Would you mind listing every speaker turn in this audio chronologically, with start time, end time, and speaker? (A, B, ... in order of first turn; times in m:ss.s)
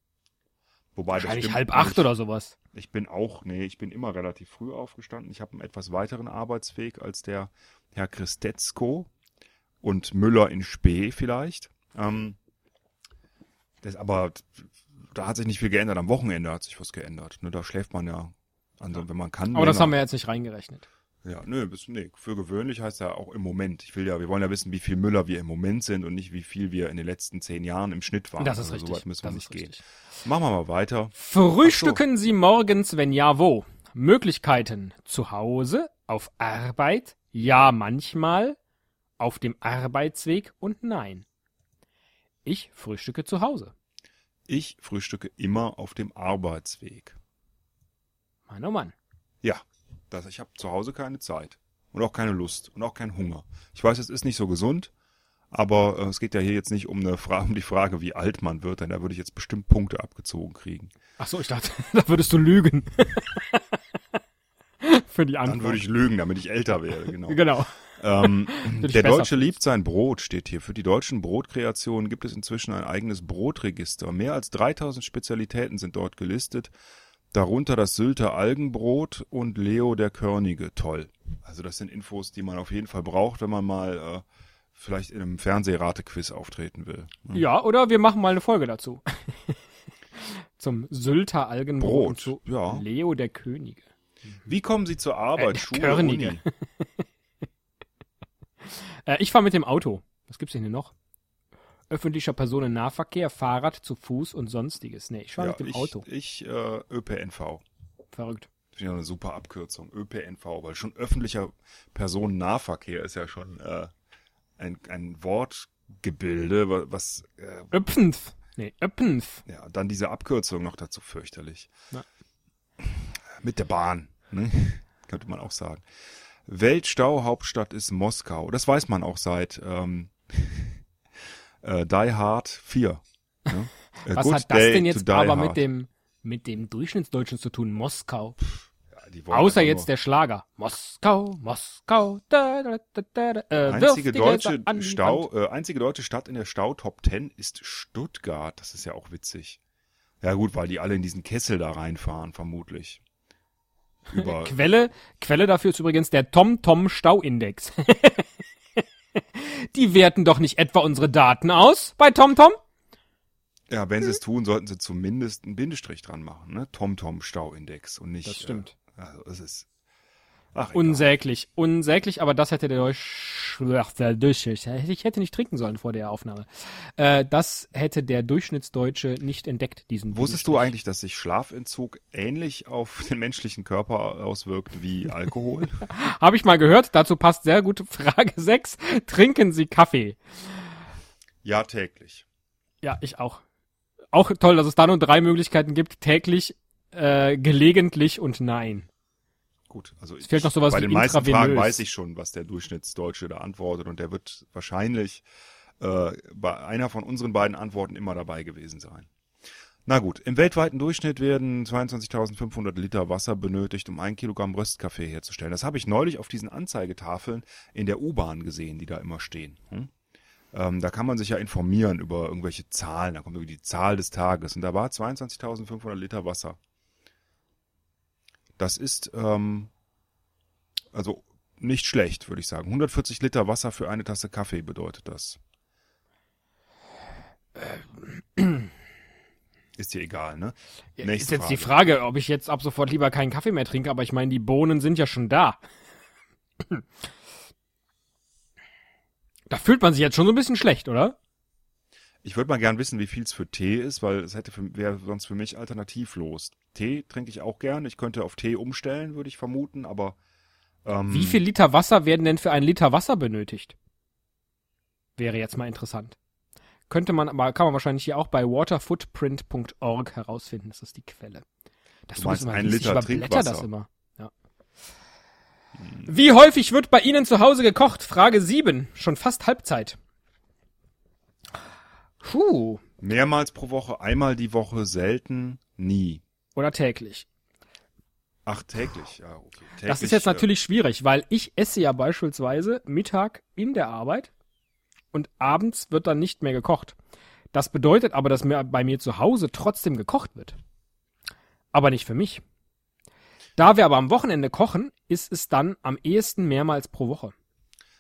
0:01.0-0:02.1 A
0:01.1-0:02.6 B
0:02.7-0:09.1 A
0:09.8-0:12.4 A
0:13.8-0:20.0 A
0:19.5-0:20.9 B
0:21.2-0:32.0 A
0:28.4-0:29.8 B
0:31.2-0:38.6 B
0:39.2-0:41.2 B
0:42.4-0:43.7 B
0:44.5-0:47.2 A
0:48.5-0:49.0 B
0:49.4-0:54.9 A
0:55.5-1:00.9 A
1:01.2-1:03.6 B
1:04.8-1:05.8 B
1:05.4-1:16.7 A
1:07.3-1:09.5 B
1:17.3-1:27.4 A
1:27.3-1:29.6 B
1:30.2-1:33.8 B
1:31.8-1:32.8 A
1:34.5-1:36.4 A
1:35.4-1:37.0 B
1:38.6-1:40.9 B
1:41.9-1:46.0 B
1:45.4-1:47.6 A
1:48.1-1:48.5 B
1:48.7-1:53.9 A
1:54.6-1:57.7 A
1:57.7-1:59.4 B
1:59.5-2:01.7 A
2:02.8-2:05.8 A
2:06.5-2:10.8 A
2:11.6-2:15.6 A
2:14.1-2:18.4 B
2:18.9-2:19.9 A
2:19.3-2:25.3 B
2:23.7-2:29.6 A
2:30.2-2:33.0 A
2:34.1-2:34.6 A
2:34.1-2:38.3 B
2:39.2-2:42.6 B
2:43.7-2:49.7 A
2:48.2-2:48.8 B
2:50.5-2:51.1 A
2:50.7-2:56.5 B
2:57.0-3:00.7 B
3:00.1-3:05.8 A
3:05.9-3:10.2 B
3:11.4-3:12.2 A
3:12.8-3:13.4 B
3:14.1-3:18.9 B
3:19.7-3:25.2 A
3:20.2-3:21.8 B
3:25.8-3:29.1 A
3:29.9-3:39.9 A
3:40.5-3:46.6 A
3:48.6-3:49.7 A
3:50.9-3:55.4 A
3:57.6-3:58.7 B
3:59.8-4:01.8 A
4:01.0-4:05.6 B
4:09.5-4:11.2 B
4:12.2-4:20.2 A
4:20.8-4:21.4 A
4:21.1-4:23.8 B
4:25.2-4:26.2 B
4:26.9-4:31.4 B
4:32.1-4:34.3 B
4:32.2-4:33.7 A
4:36.0-4:40.0 B
4:42.2-4:42.8 B
4:43.0-4:46.2 A
4:46.6-4:47.3 B
4:48.5-4:50.5 A
4:49.9-4:54.3 B
4:55.1-4:57.0 B
4:57.5-5:00.6 B
5:01.7-5:02.4 B
5:03.6-5:07.3 B